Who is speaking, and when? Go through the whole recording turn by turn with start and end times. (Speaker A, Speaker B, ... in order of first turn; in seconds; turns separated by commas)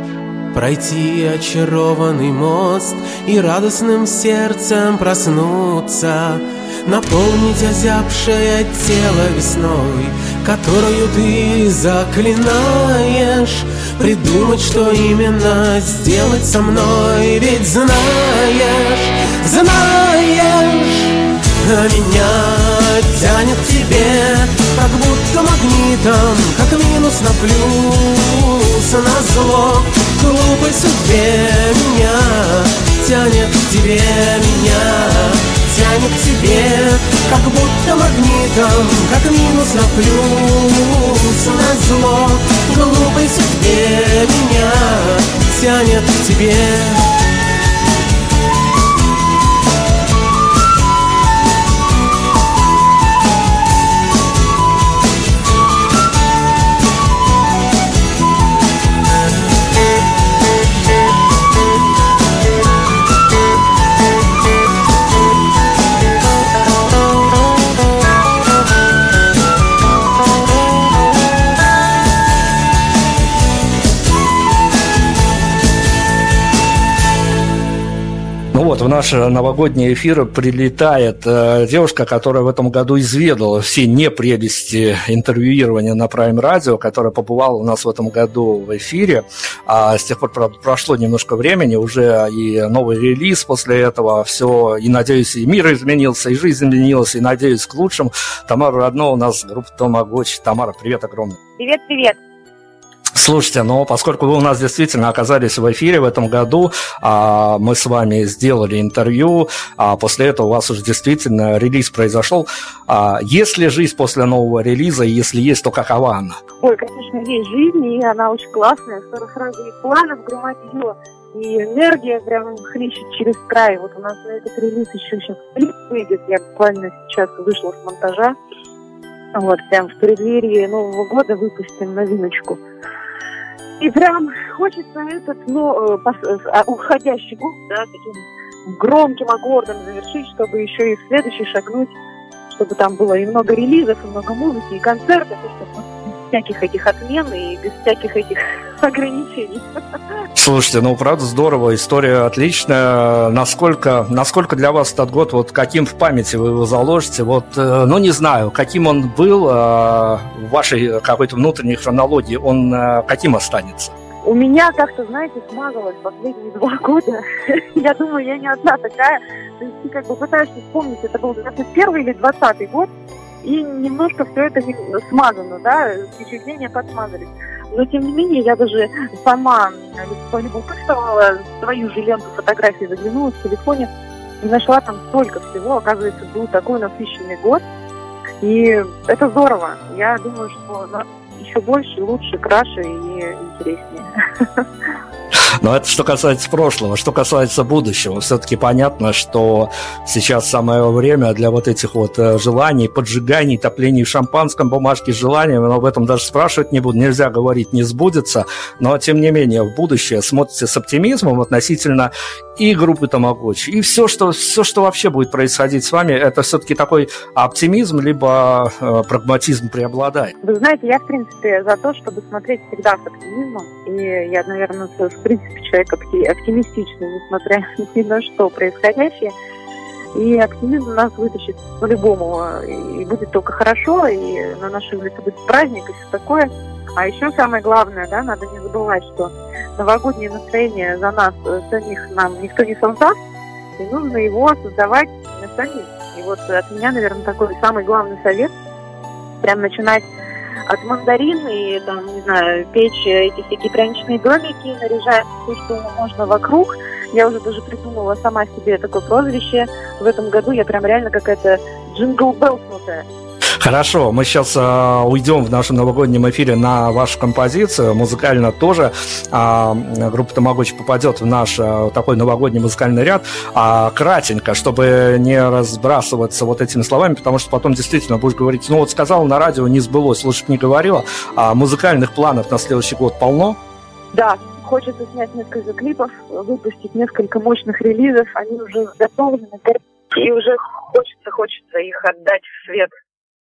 Speaker A: 0.5-47.1, Speaker B: 78.5-101.4, Speaker C: 101.6-102.2, Speaker B: 103.2-116.4, Speaker C: 116.6-128.3, Speaker C: 129.3-132.6, Speaker C: 133.8-141.9, Speaker C: 142.5-149.6, Speaker B: 150.3-163.9, Speaker C: 164.2-172.9, Speaker C: 173.4-183.9, Speaker C: 184.4-187.6, Speaker C: 188.4-194.1, Speaker B: 195.6-220.3, Speaker C: 220.4-229.3, Speaker C: 230.1-243.2, Speaker C: 243.8-248.5, Speaker C: 249.4-250.1, Speaker C: 250.7-263.0, Speaker B: 263.6-283.6, Speaker C: 284.1-292.9